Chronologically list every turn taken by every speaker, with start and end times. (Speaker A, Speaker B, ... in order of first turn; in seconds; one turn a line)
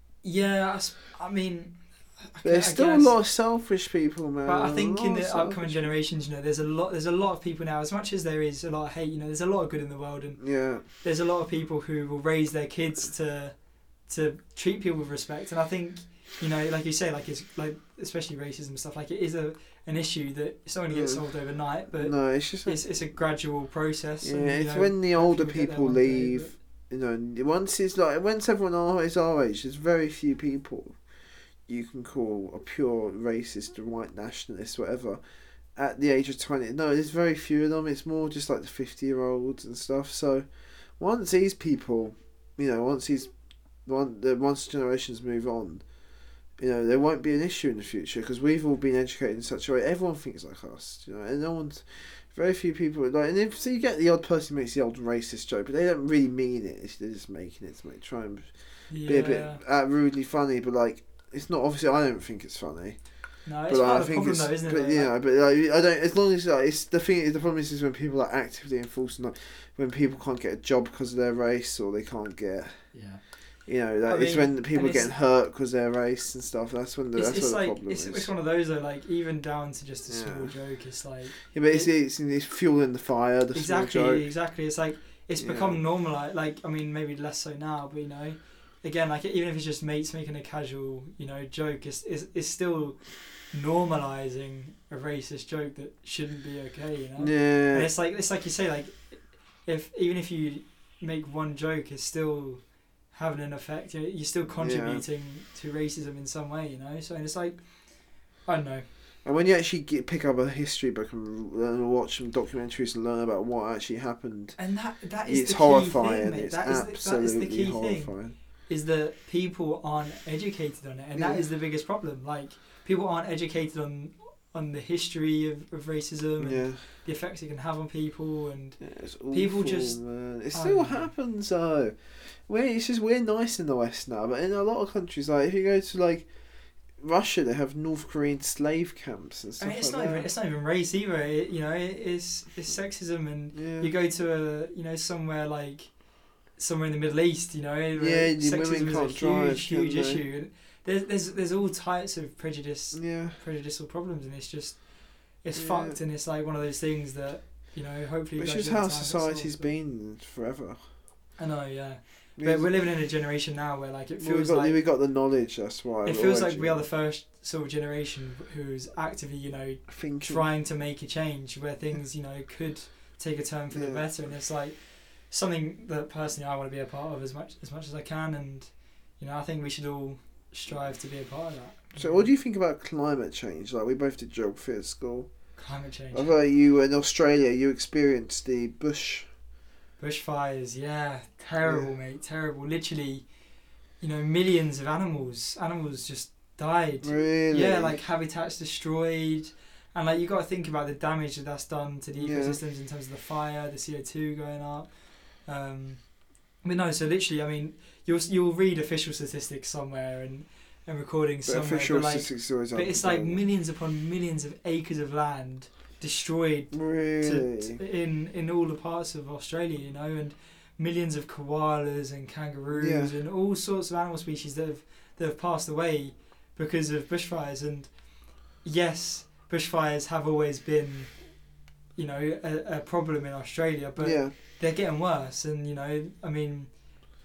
Speaker A: 0.2-3.2
Speaker B: 2.4-5.9
Speaker A: 4.5-13.6
Speaker B: 10.4-10.8
Speaker A: 14.1-26.5
Speaker B: 20.9-21.2
Speaker B: 22.0-22.8
Speaker B: 24.2-31.0
Speaker B: 31.7-35.2
Speaker B: 35.8-40.5
Speaker B: 41.0-43.3
Speaker B: 43.9-45.9
Speaker B: 46.6-72.9
Speaker A: 58.9-59.6
Speaker A: 63.5-65.1
Speaker A: 72.9-73.2
Speaker B: 73.7-78.3
Speaker A: 74.0-75.1
Speaker A: 77.1-81.9
Speaker B: 80.1-80.6
Speaker B: 81.5-84.3
Speaker A: 83.5-108.9
Speaker B: 85.4-85.8
Speaker B: 97.2-97.9
Speaker B: 104.6-105.0
Speaker B: 109.2-114.6
Speaker A: 114.6-118.2
Speaker B: 115.2-118.3
Speaker A: 118.7-130.0
Speaker B: 121.2-121.4
Speaker B: 126.4-126.8
Speaker B: 128.8-140.3
Speaker A: 130.5-131.1
Speaker A: 139.6-145.9
Speaker B: 143.5-143.9
Speaker A: 146.6-159.7
Speaker B: 148.0-150.2
Speaker B: 152.9-153.4
Speaker B: 155.6-156.0
Speaker B: 158.4-160.8
Speaker A: 161.4-164.8
Speaker B: 162.4-162.7
Speaker B: 164.2-166.9
Speaker A: 166.0-182.3
Speaker B: 169.9-170.5
Speaker B: 173.7-174.1
Speaker B: 181.9-185.3
Speaker A: 185.6-186.3
Speaker B: 186.1-189.3
Speaker A: 190.0-193.3
Speaker B: 191.6-191.9
Speaker A: 194.0-228.0
Speaker B: 197.0-198.0
Speaker B: 202.2-202.6
Speaker B: 211.5-213.4
Speaker B: 216.7-217.8
Speaker B: 222.7-223.1
Speaker A: 228.6-231.2
Speaker A: 231.9-236.7
Speaker B: 234.0-234.3